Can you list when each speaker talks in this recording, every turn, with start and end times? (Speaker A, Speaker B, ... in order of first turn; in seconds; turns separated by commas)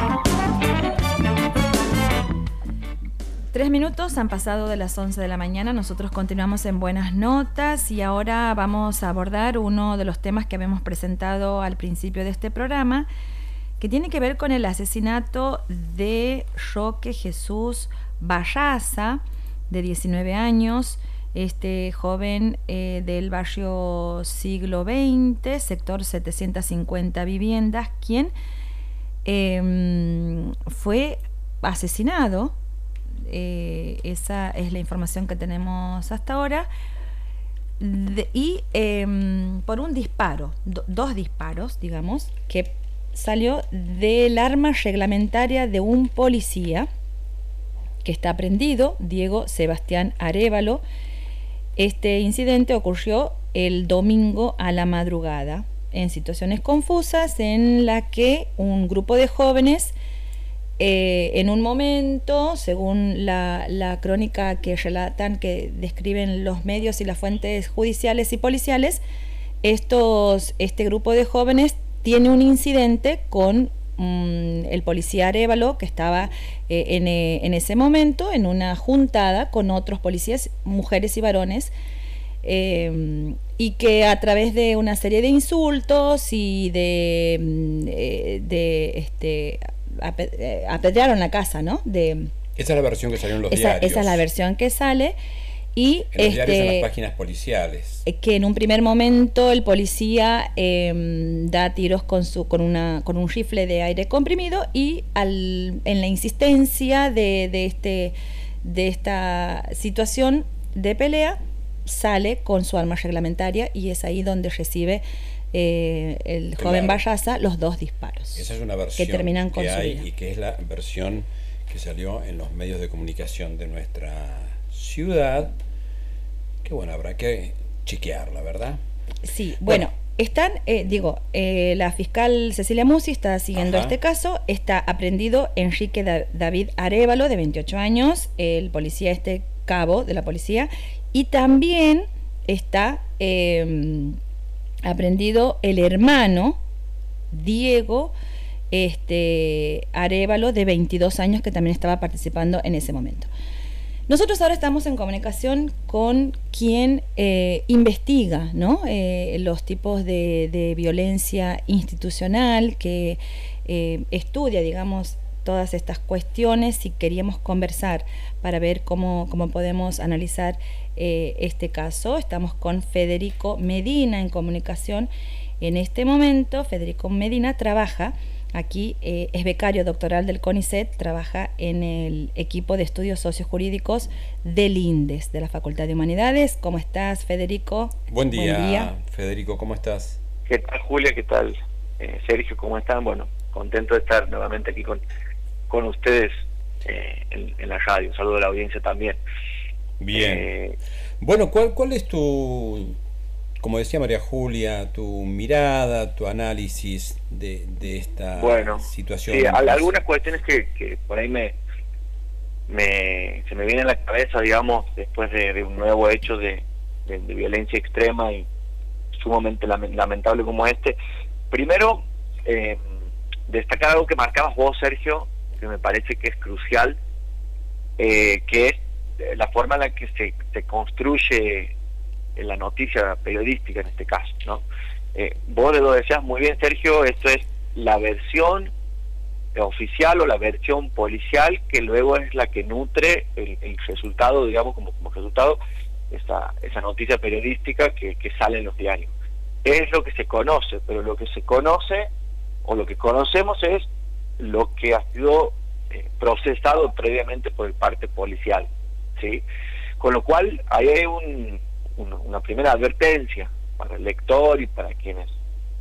Speaker A: 3.5-13.1, Speaker A: 13.8-28.3, Speaker A: 29.2-32.5, Speaker A: 33.2-36.7, Speaker A: 37.8-46.9, Speaker A: 48.0-50.8, Speaker A: 51.8-60.0, Speaker A: 60.8-69.0, Speaker A: 69.6-81.7, Speaker A: 82.4-92.3, Speaker B: 92.6-94.2, Speaker A: 93.5-95.2, Speaker A: 95.8-96.9, Speaker B: 96.1-98.0, Speaker A: 98.0-120.1, Speaker B: 116.6-117.0, Speaker B: 118.3-125.5, Speaker B: 126.6-128.8, Speaker A: 129.2-144.2, Speaker B: 133.5-134.0, Speaker A: 144.8-146.6, Speaker A: 147.3-148.2, Speaker A: 148.7-153.3, Speaker A: 154.1-175.1, Speaker A: 175.6-188.9, Speaker B: 188.1-190.2, Speaker C: 190.5-195.0, Speaker C: 195.7-199.2, Speaker B: 200.0-200.5, Speaker C: 200.1-200.8, Speaker B: 201.2-202.9, Speaker B: 203.6-210.0, Speaker C: 208.3-211.6, Speaker C: 212.7-218.5, Speaker C: 219.2-221.0, Speaker C: 221.5-222.8, Speaker C: 223.5-227.0, Speaker C: 228.0-231.7, Speaker C: 232.4-234.6, Speaker C: 235.2-238.7, Speaker C: 239.6-245.6, Speaker C: 246.1-249.1, Speaker C: 249.6-252.1, Speaker C: 252.7-253.9, Speaker C: 254.4-259.4, Speaker C: 260.0-265.3